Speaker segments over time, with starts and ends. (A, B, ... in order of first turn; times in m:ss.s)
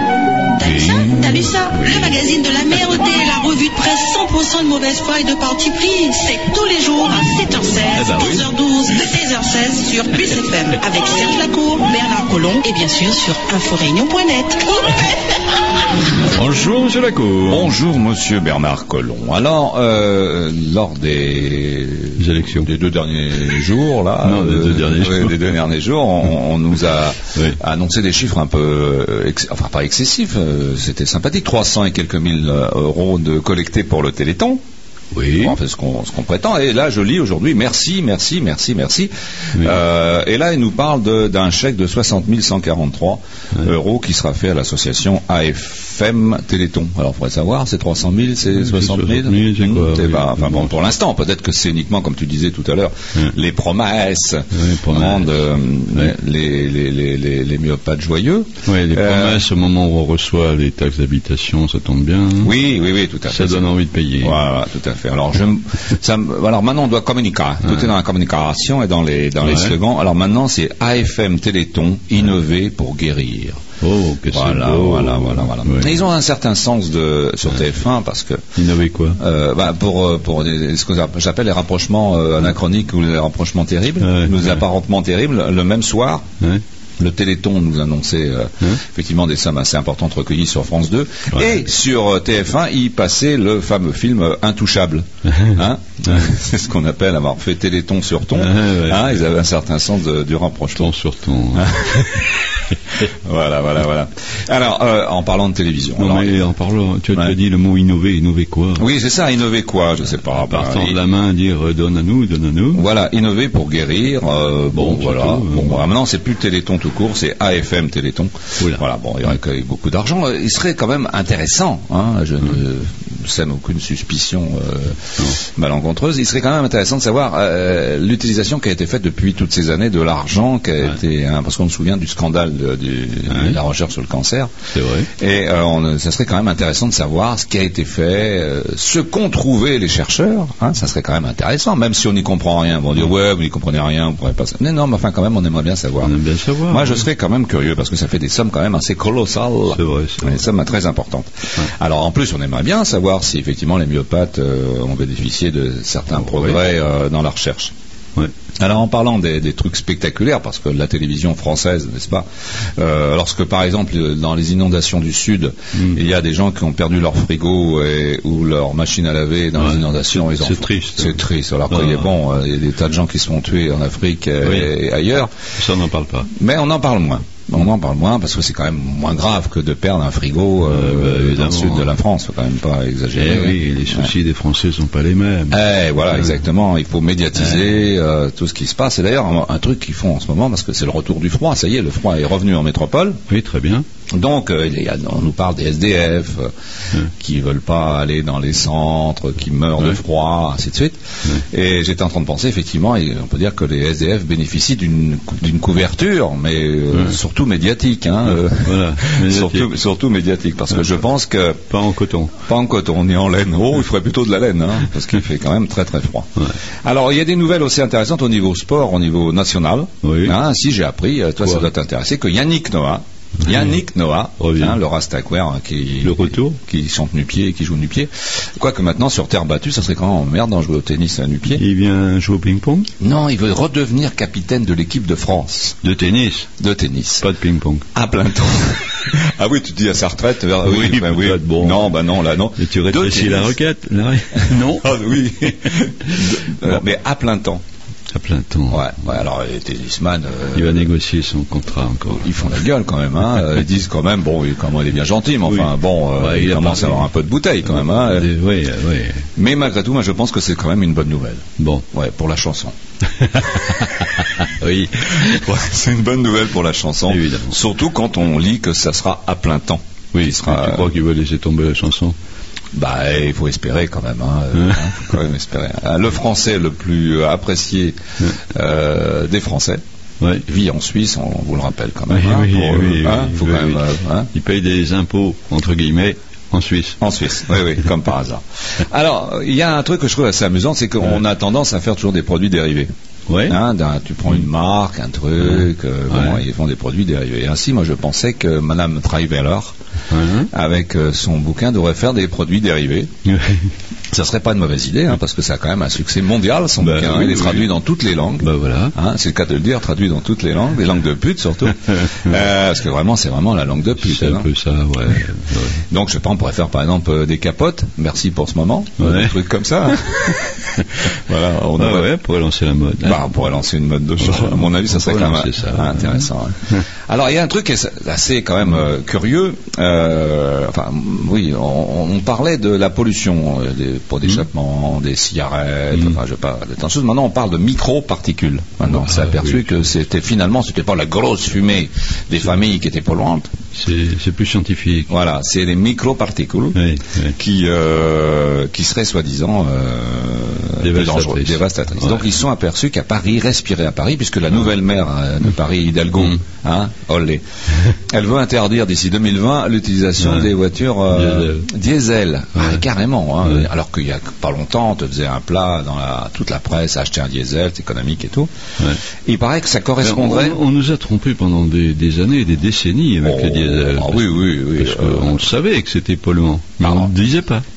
0:00.5-0:15.2 A
0:00.6-0:01.0 B
0:01.7-0:02.2 B
0:07.9-0:08.5 B
0:16.3-0:17.8 B
0:17.5-0:34.6 C
0:22.2-0:22.7 B
0:24.2-0:25.5 B
0:35.1-0:35.6 B
0:35.4-0:59.4 C
0:48.5-0:50.8 B
0:54.5-0:56.1 B
0:58.6-1:02.5 B
1:02.4-1:13.6 C
1:03.3-1:04.4 B
1:07.6-1:07.9 B
1:09.4-1:09.8 B
1:13.8-1:16.0 B
1:14.3-1:18.5 C
1:18.6-1:19.2 B
1:19.2-1:26.2 C
1:24.0-1:24.6 B
1:27.0-1:40.9 C
1:35.3-1:35.6 B
1:38.3-1:39.2 B
1:40.8-1:42.1 B
1:41.5-1:46.4 C
1:46.0-1:48.8 B
1:48.8-1:51.0 C
1:50.4-1:52.8 B
1:52.7-2:14.5 C
1:54.7-1:55.8 B
2:13.3-2:13.6 B
2:14.7-2:15.1 B
2:15.2-2:26.1 C
2:26.0-2:27.0 B
2:26.7-2:37.7 C
2:29.6-2:30.4 B
2:36.1-2:36.6 B
2:38.6-2:42.2 C
2:42.8-2:55.3 C
2:49.6-2:52.1 B
2:54.4-2:54.7 B
2:55.6-2:56.3 B
2:56.3-3:04.1 C
3:00.6-3:02.0 B
3:03.1-3:05.6 B
3:05.5-3:13.2 C
3:06.1-3:06.4 B
3:07.4-3:07.6 B
3:13.3-3:13.8 B
3:14.1-3:16.5 C
3:17.1-3:31.6 C
3:26.9-3:27.2 B
3:28.2-3:29.7 B
3:31.7-3:32.4 B
3:32.4-3:51.6 C
3:40.0-3:40.3 B
3:41.4-3:41.7 B
3:44.4-3:44.8 B
3:46.0-3:46.6 B
3:51.5-3:52.9 B
3:53.0-3:55.8 C
3:55.8-3:56.5 B
3:56.6-3:57.3 C
3:57.2-3:57.9 B
3:57.9-4:03.5 C
4:00.6-4:02.0 B
4:02.5-4:04.9 B
4:04.4-4:07.6 C
4:08.1-4:08.9 B
4:08.7-4:10.9 C
4:10.5-4:12.3 B
4:12.1-4:18.3 C
4:15.4-4:17.1 B
4:17.6-4:19.3 B
4:19.4-4:22.7 C
4:21.6-4:21.8 B
4:23.2-4:25.4 B
4:25.0-4:30.9 C
4:27.0-4:27.5 B
4:30.1-4:32.2 B
4:32.7-4:39.8 C
4:34.5-4:35.0 B
4:40.4-4:44.3 C
4:42.1-4:47.0 B
4:47.0-4:52.9 C
4:53.3-4:53.6 B
4:53.5-4:59.8 C
4:55.4-4:56.4 B
5:00.1-5:00.5 B
5:00.5-5:03.1 C
5:03.2-5:03.7 B
5:04.1-5:14.5 C
5:06.8-5:07.7 B
5:08.4-5:09.0 B
5:14.0-5:15.8 B
5:15.9-5:22.1 C
5:19.0-5:20.0 B
5:21.8-5:23.3 B
5:23.0-5:43.5 C
5:24.2-5:26.3 B
5:35.9-5:36.2 B
5:38.8-5:39.7 B
5:43.7-5:45.1 B
5:45.1-5:46.8 C
5:46.7-5:47.3 B
5:47.3-6:08.5 C
5:50.8-5:52.3 B
6:00.2-6:00.5 B
6:01.1-6:01.7 B
6:02.6-6:02.8 B
6:09.2-6:10.6 C
6:10.0-6:17.6 B
6:13.2-6:15.5 C
6:16.8-6:17.1 C